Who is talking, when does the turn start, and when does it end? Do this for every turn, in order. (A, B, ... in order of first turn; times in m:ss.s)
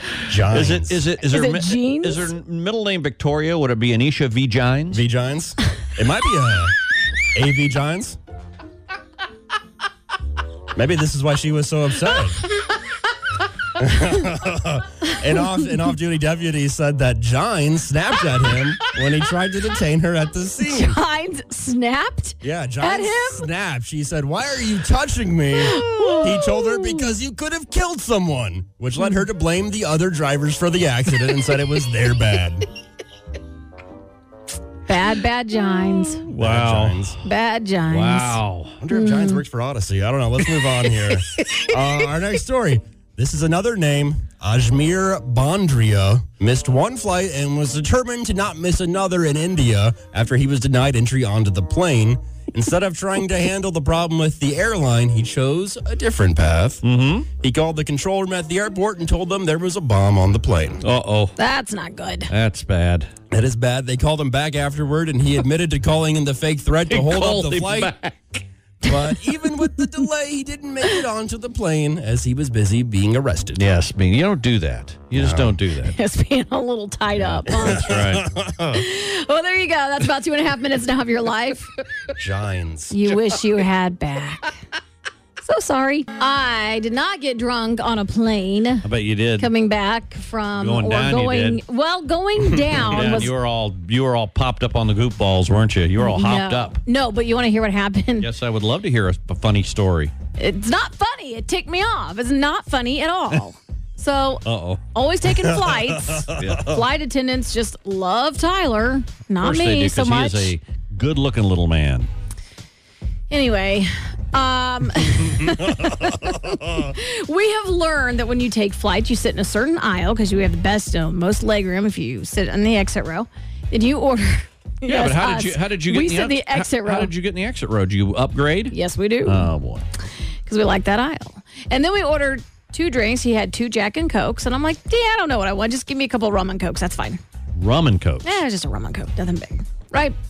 0:00.2-0:01.0 A
0:00.4-0:05.0 B
0:01.3-0:02.3 C
0:04.9-0:06.8 A
0:07.3-0:08.2 A
0:10.7-0:12.4 A
0:13.8-0:21.0 A
0:20.6-0:23.5 C
0:22.4-0:32.7 A
0:25.6-0:27.0 C
0:34.9-0:36.2 C
0:36.3-0:37.2 B
0:36.3-0:37.2 A
0:37.2-0:39.4 C
0:37.9-0:38.8 B
0:38.8-0:56.8 A
0:56.8-0:57.3 B
0:57.4-1:00.8 A
1:00.8-1:01.4 B
1:01.4-1:02.3 C
1:02.3-1:03.1 B
1:03.3-1:08.0 A
1:06.9-1:08.4 B
1:08.8-1:13.7 A
1:13.5-1:16.0 B
1:15.1-1:15.6 A
1:15.8-1:17.9 C
1:17.3-1:18.3 B
1:17.6-1:18.8 A
1:18.7-1:21.7 C
1:22.2-1:23.0 A
1:22.9-1:24.5 C
1:25.4-1:28.9 C
1:28.8-1:29.5 B
1:29.4-1:33.3 C
1:30.6-1:31.6 B
1:32.7-1:36.8 B
1:36.0-1:38.3 C
1:38.2-1:40.1 B
1:40.4-1:50.6 C
1:44.4-1:44.8 B
1:45.6-1:46.5 A
1:46.3-1:46.8 B
1:49.4-1:52.1 B
1:53.3-2:07.1 C
2:04.9-2:09.8 B
2:08.7-2:09.5 C
2:10.5-2:17.2 C
2:17.6-2:18.3 B
2:18.2-2:20.2 C